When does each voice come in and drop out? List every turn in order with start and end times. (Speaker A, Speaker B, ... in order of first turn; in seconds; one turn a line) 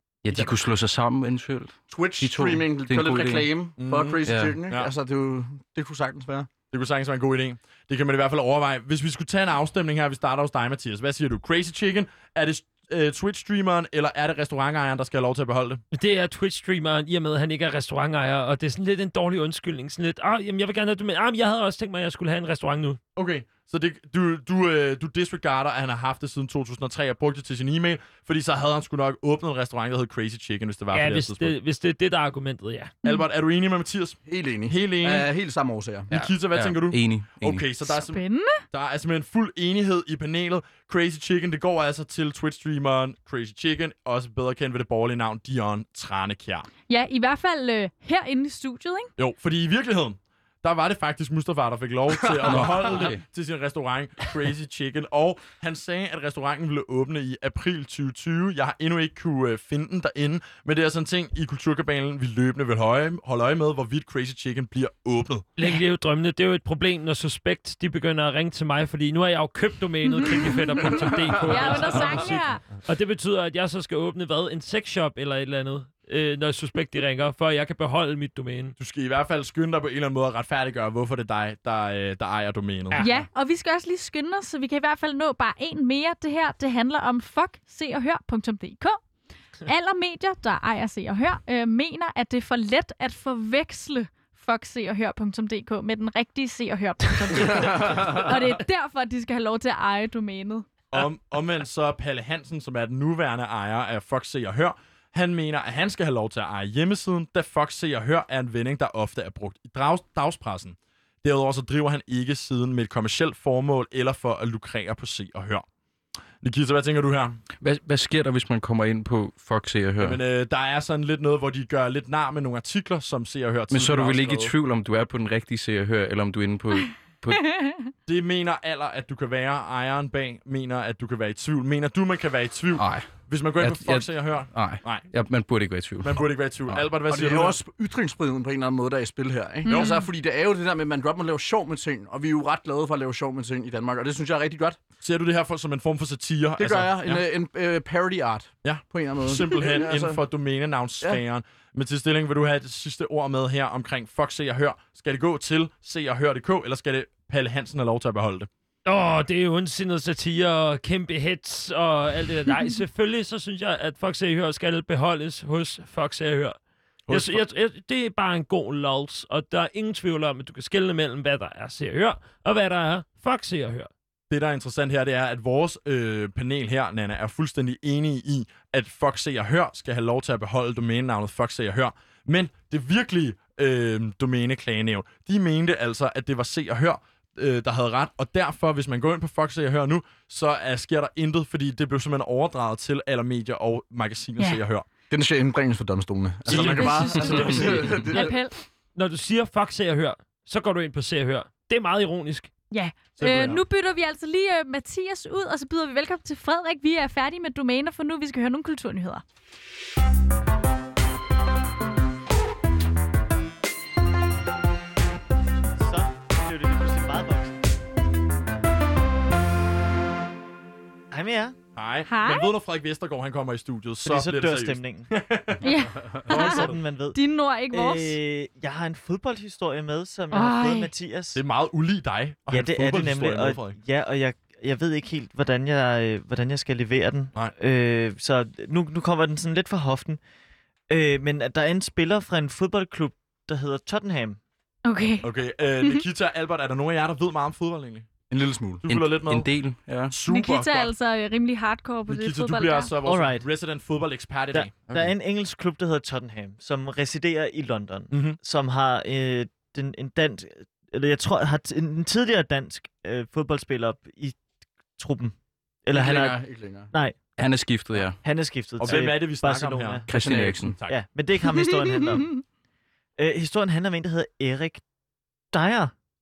Speaker A: 0.2-3.6
Speaker B: 1.9-6.5
Speaker C: 3.8-4.9
Speaker A: 4.2-4.6
Speaker C: 6.7-15.8
Speaker D: 15.9-23.0
Speaker C: 23.1-31.5
Speaker D: 30.9-33.0
Speaker C: 33.0-35.3
Speaker B: 34.2-36.1
Speaker A: 36.1-37.7
Speaker C: 36.1-46.7
Speaker E: 37.8-38.6
Speaker E: 46.9-49.1
Speaker C: 49.2-65.5
Speaker A: 52.4-53.2
Speaker B: 52.5-53.1
Speaker D: 65.5-78.7
Speaker E: 70.2-72.7
Speaker C: 78.8-83.1
Speaker D: 82.9-83.2
Speaker E: 83.0-89.0
Speaker E: 89.6-100.7
Speaker B: 97.4-98.2
Speaker C: 100.9-115.6
Speaker C: 116.4-117.4
Speaker A: 117.6-120.2
Speaker C: 120.0-124.5
Speaker A: 123.7-127.5
Speaker E: 127.3-127.9
Speaker C: 128.1-137.6
Speaker A: 132.8-137.0
Speaker B: 137.0-144.8
Speaker E: 139.6-140.1
Speaker C: 139.7-139.9
Speaker C: 145.0-147.2
Speaker B: 146.6-150.2
Speaker C: 148.6-158.5
Speaker D: 158.8-173.9
Speaker C: 167.1-167.4
Speaker C: 174.3-194.9
Speaker B: 195.1-198.3
Speaker C: 196.4-197.9
Speaker E: 196.6-198.6
Speaker D: 196.7-198.2
Speaker D: 198.9-202.5
Speaker E: 202.7-209.2
Speaker C: 203.2-203.5
Speaker B: 203.2-203.5
Speaker F: 215.8-217.5
Speaker F: 221.1-221.6
Speaker C: 221.8-226.8
Speaker E: 222.1-222.5
Speaker F: 224.0-225.1
Speaker E: 225.6-228.2
Speaker F: 226.3-231.4
Speaker E: 230.3-230.9
Speaker C: 231.3-233.8
Speaker F: 232.5-240.2
Speaker F: 240.9-244.4
Speaker E: 244.8-245.3
Speaker C: 245.2-248.1
Speaker B: 248.3-248.9
Speaker C: 248.8-250.9
Speaker A: 248.9-250.1
Speaker E: 250.3-252.9
Speaker C: 252.1-254.9
Speaker F: 253.0-253.5
Speaker F: 254.5-264.4
Speaker C: 258.1-258.4
Speaker F: 265.0-265.3
Speaker F: 265.9-270.1
Speaker B: 265.9-266.9
Speaker A: 267.4-268.2
Speaker C: 268.8-271.0
Speaker A: 270.1-270.8
Speaker B: 270.2-270.7
Speaker F: 270.8-272.4
Speaker F: 273.2-274.8
Speaker F: 275.5-275.9